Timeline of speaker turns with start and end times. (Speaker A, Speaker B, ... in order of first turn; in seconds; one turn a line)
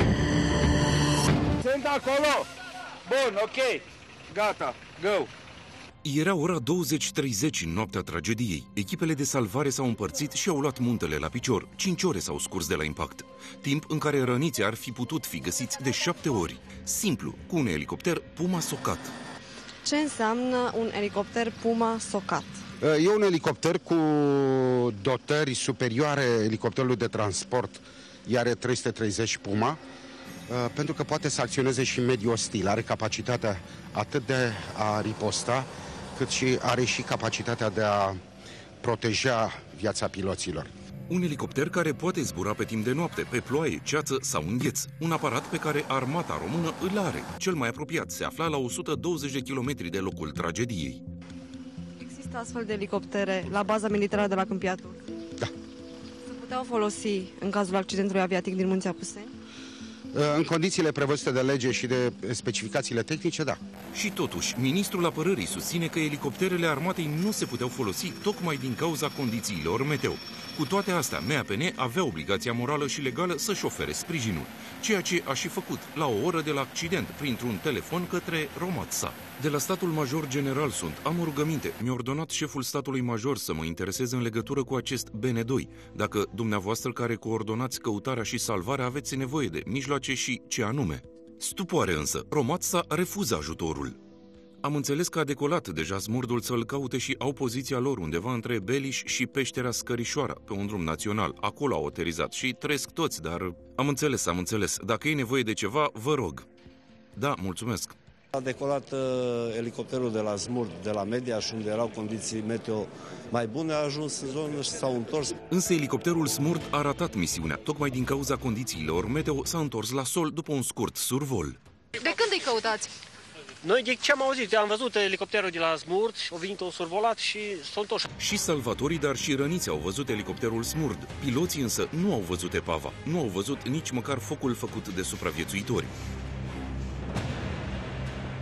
Speaker A: 1.7-2.5
Speaker A: 3.1-3.8
Speaker A: 4.4-5.3
Speaker B: 6.0-19.1
Speaker C: 19.8-22.6
Speaker D: 22.8-29.8
Speaker D: 30.5-38.2
Speaker D: 38.8-40.7
Speaker B: 41.1-51.0
Speaker C: 52.0-55.0
Speaker C: 56.3-59.3
Speaker D: 60.1-63.6
Speaker B: 63.9-94.0
Speaker B: 94.6-106.5
Speaker B: 107.1-108.0
Speaker E: 108.3-115.4
Speaker B: 115.5-121.6
Speaker F: 122.4-122.8
Speaker F: 123.6-128.1
Speaker B: 128.2-135.9